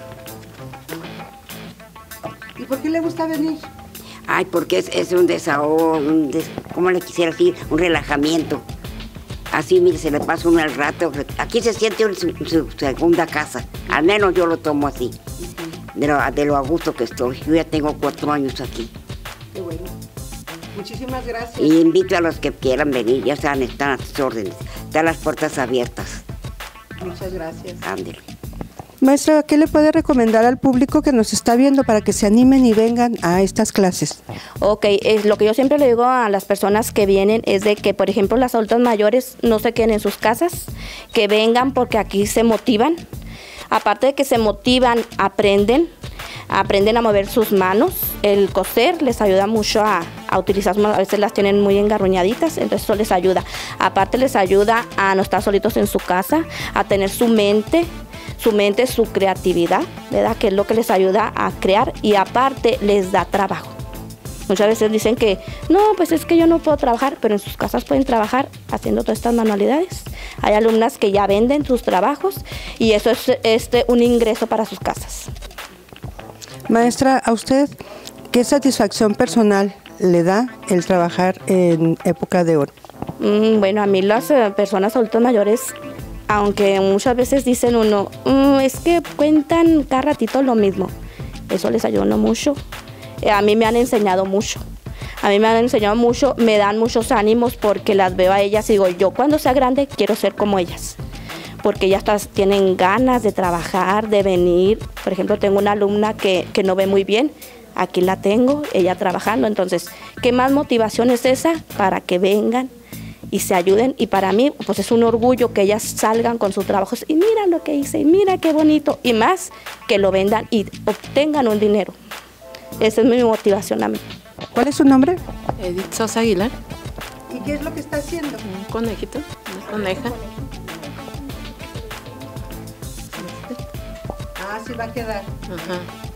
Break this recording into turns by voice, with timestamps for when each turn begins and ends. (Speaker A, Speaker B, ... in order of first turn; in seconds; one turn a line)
Speaker A: 2.6-3.7
Speaker B: 4.3-8.6
Speaker B: 9.5-15.2
Speaker B: 15.9-18.9
Speaker A: 19.5-19.9
Speaker A: 20.7-21.7
Speaker B: 21.6-26.2
Speaker A: 27.0-27.8
Speaker B: 27.8-28.2
Speaker A: 29.0-34.2
Speaker C: 34.6-43.0
Speaker C: 43.7-45.9
Speaker C: 46.5-63.8
Speaker C: 64.5-75.3
Speaker A: 76.7-77.7
Speaker A: 78.3-82.7
Speaker C: 83.2-85.7
Speaker C: 86.3-90.9
Speaker C: 91.5-92.6
Speaker C: 93.2-94.6
Speaker C: 95.2-101.0
Speaker C: 101.6-112.7
Speaker C: 113.3-121.9
Speaker C: 122.8-124.0
Speaker A: 124.5-125.2
Speaker D: 125.6-126.5
Speaker A: 127.3-128.4
Speaker D: 128.4-130.1
Speaker D: 133.2-133.6
Speaker A: 134.4-135.3
Speaker D: 135.5-135.9